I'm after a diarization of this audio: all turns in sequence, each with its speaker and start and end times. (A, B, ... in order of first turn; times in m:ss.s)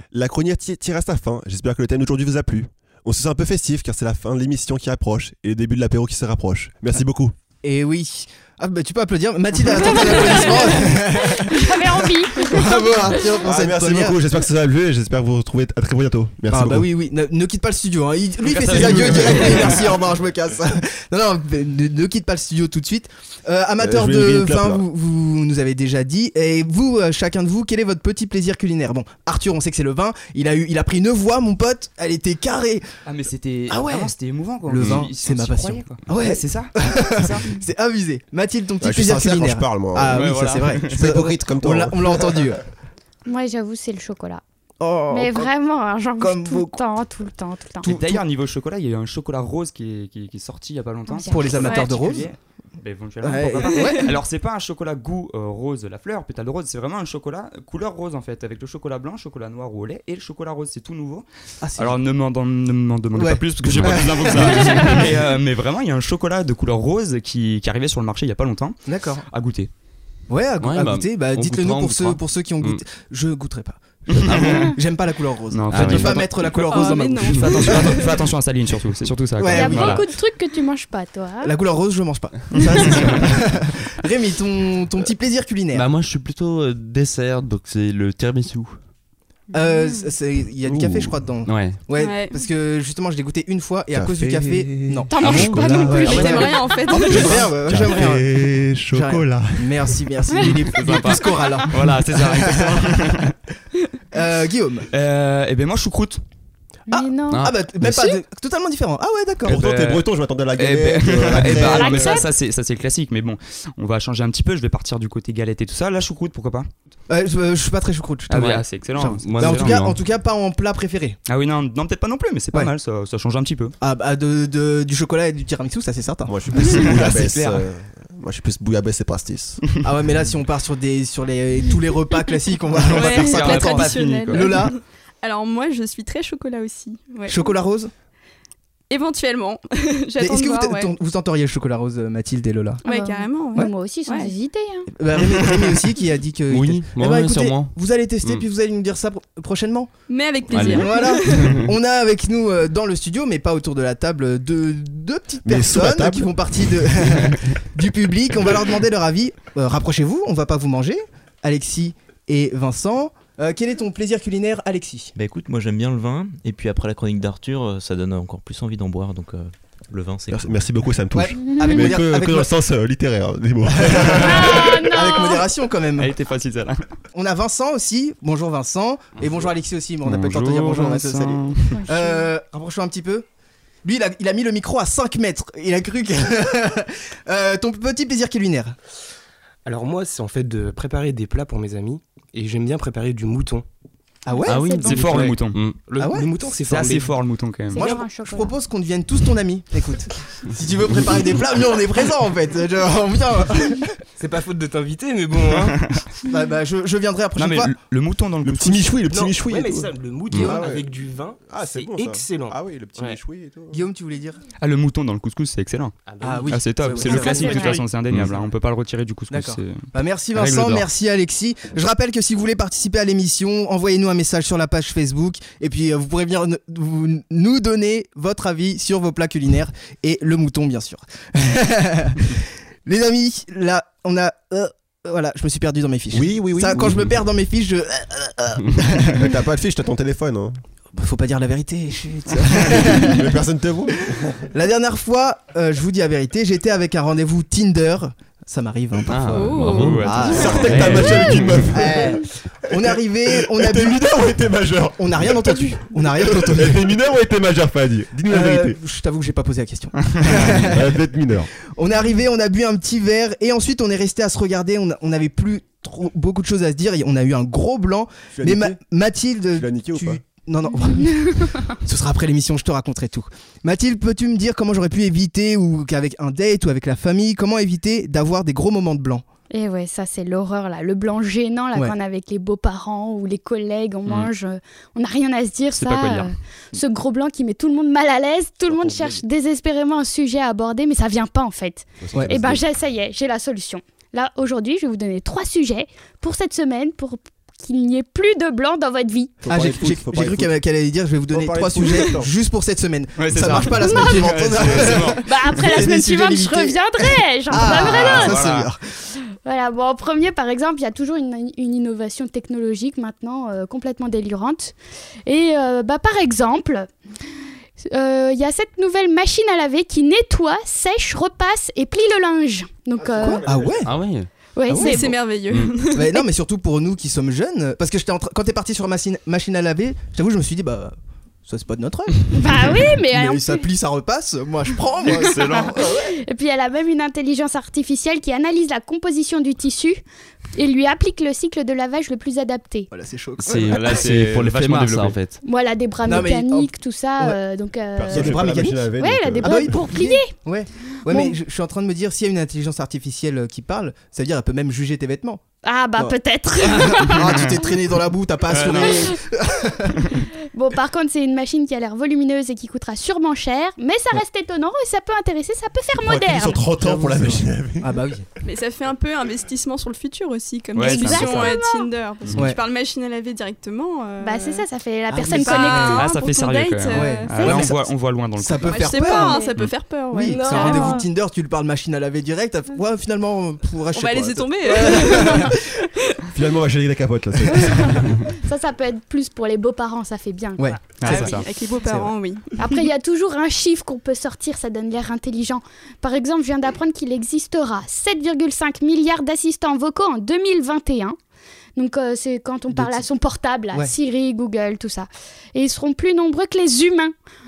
0:00.1-0:07.3 A
0:07.6-0:14.2 B
0:09.7-0:13.1 C
0:13.2-0:16.9 A
0:16.5-0:32.8 B
0:18.4-0:19.9 D
0:18.7-0:19.7 A
0:23.8-0:24.8 A
0:33.0-0:37.4 D
0:33.7-0:34.1 B
0:34.7-0:42.6 B
0:38.8-0:40.3 A
0:40.1-0:41.0 D
0:40.9-0:42.6 A
0:43.2-0:44.4 C
0:44.8-0:45.5 B
0:45.1-0:47.8 C
0:46.2-0:46.8 B
0:47.8-0:48.2 B
0:47.8-1:01.2 D
0:51.1-0:52.3 C
0:51.2-0:52.3 B
0:53.2-0:54.1 B
0:53.8-0:54.1 E
1:01.6-1:02.0 B
1:01.8-1:09.7 D
1:03.1-1:05.1 B
1:03.7-1:04.1 F
1:08.8-1:09.2 B
1:10.3-1:18.0 B
1:10.6-1:12.8 F
1:14.1-1:14.8 D
1:14.2-1:14.7 F
1:15.5-1:20.0 D
1:15.7-1:16.2 F
1:16.5-1:18.3 E
1:19.4-1:20.0 B
1:19.5-1:21.5 C
1:21.4-1:25.9 B
1:22.7-1:23.1 D
1:25.7-1:28.8 F
1:29.5-1:38.2 B
1:30.7-1:31.8 F
1:31.9-1:32.4 E
1:33.9-1:36.4 A
1:35.1-1:36.3 C
1:35.2-1:36.5 F
1:36.0-1:37.4 E
1:37.0-1:40.0 A
1:38.9-1:43.3 B
1:40.7-1:43.3 D
1:44.1-1:44.9 B
1:44.9-1:46.2 D
1:46.9-1:48.2 C
1:46.9-1:49.6 B
1:47.3-1:47.6 F
1:49.4-1:56.7 D
1:49.5-1:52.2 A
1:51.6-1:52.3 C
1:57.1-2:01.2 B
1:58.3-1:59.8 D
1:58.6-2:00.0 F
2:01.3-2:03.7 D
2:03.8-2:07.1 B
2:06.3-2:09.6 A
2:06.7-2:07.6 D
2:09.8-2:14.7 B
2:12.8-2:17.5 E
2:12.9-2:14.5 D
2:17.3-2:17.9 B
2:18.9-2:20.9 E
2:20.2-2:22.8 B
2:22.8-2:24.3 E
2:22.8-2:24.9 C
2:24.9-2:29.9 B
2:26.5-2:28.4 F
2:30.1-2:31.4 E
2:30.5-2:31.7 F
2:30.6-2:45.1 B
2:35.4-2:37.3 A
2:45.1-2:50.6 G
2:50.3-2:55.1 A
2:51.1-2:52.5 B
2:51.5-2:51.9 C
2:53.7-2:56.1 B
2:54.2-2:55.4 C
2:56.0-2:56.8 D
2:57.1-3:03.2 B
3:00.0-3:01.8 D
3:01.7-3:02.3 C
3:03.8-3:08.8 B
3:09.6-3:13.6 H
3:14.2-3:14.6 B
3:14.3-3:15.3 C
3:14.4-3:15.8 F
3:14.8-3:15.6 D
3:15.8-3:17.2 H
3:16.0-3:16.2 B
3:16.6-3:17.8 D
3:17.7-3:18.5 C
3:17.7-3:24.0 B
3:17.8-3:18.0 H
3:24.2-3:25.8 H
3:26.2-3:27.7 B
3:27.4-3:29.0 D
3:28.4-3:30.9 A
3:29.1-3:33.2 H
3:31.4-3:33.8 A
3:33.7-3:34.4 B
3:34.6-3:35.9 D
3:36.1-3:37.9 H
3:36.2-3:37.8 B
3:36.5-3:39.8 D
3:39.3-3:59.3 B
3:40.3-3:40.9 D
3:56.1-3:57.1 A
3:59.0-4:00.6 A
4:01.0-4:03.3 B
4:02.5-4:04.5 A
4:04.5-4:10.9 B
4:09.1-4:11.7 F
4:09.3-4:10.3 E
4:09.6-4:11.2 D
4:10.3-4:18.8 A
4:11.7-4:14.1 B
4:15.0-4:16.8 B
4:18.3-4:20.9 B
4:20.3-4:21.5 A
4:21.8-4:39.2 B
4:28.3-4:28.8 A
4:29.5-4:30.2 A
4:30.8-4:31.6 C
4:39.5-4:59.4 C
4:44.0-4:44.3 D
4:45.7-4:46.3 D
4:48.7-4:49.2 A
4:52.0-4:52.6 A
4:52.1-4:52.4 B
4:59.4-5:08.8 B
4:59.4-5:00.6 A
5:01.3-5:02.3 A
5:03.2-5:05.2 D
5:03.6-5:08.4 C
5:07.6-5:08.7 D
5:09.3-5:14.7 C
5:15.3-5:16.9 C
5:17.8-5:23.5 C
5:23.0-5:24.0 A
5:23.2-5:23.9 B
5:23.8-5:24.3 F
5:24.6-5:25.2 C
5:24.7-5:25.1 B
5:24.7-5:26.2 E
5:25.9-5:30.9 B
5:31.4-5:36.0 B
5:32.3-5:33.6 C
5:35.0-5:40.0 C
5:35.0-5:35.8 D
5:40.6-5:42.9 C
5:42.9-5:44.0 B
5:43.4-5:45.4 F
5:43.7-5:45.2 D
5:45.4-5:50.3 C
5:46.0-5:47.4 B
5:48.0-5:49.9 A
5:48.1-5:48.9 B
5:49.4-5:55.4 B
5:51.0-5:51.4 C
5:55.6-5:57.6 C
5:56.0-6:00.0 B
5:58.5-5:59.1 D
6:00.5-6:06.6 C
6:06.0-6:07.9 A
6:07.8-6:08.2 B
6:08.4-6:14.6 E
6:10.7-6:11.5 D
6:10.8-6:11.9 C
6:12.2-6:12.5 D
6:14.2-6:16.2 C
6:15.1-6:16.0 B
6:15.3-6:17.6 E
6:15.8-6:18.8 D
6:16.9-6:19.5 B
6:18.7-6:21.0 E
6:18.7-6:19.6 C
6:20.1-6:25.6 B
6:20.3-6:21.0 C
6:23.9-6:26.2 E
6:26.3-6:28.1 A
6:28.3-6:31.4 C
6:30.6-6:32.1 B
6:31.0-6:31.4 D
6:31.0-6:32.7 E
6:32.6-6:41.2 C
6:41.8-6:47.1 C
6:42.7-6:43.0 B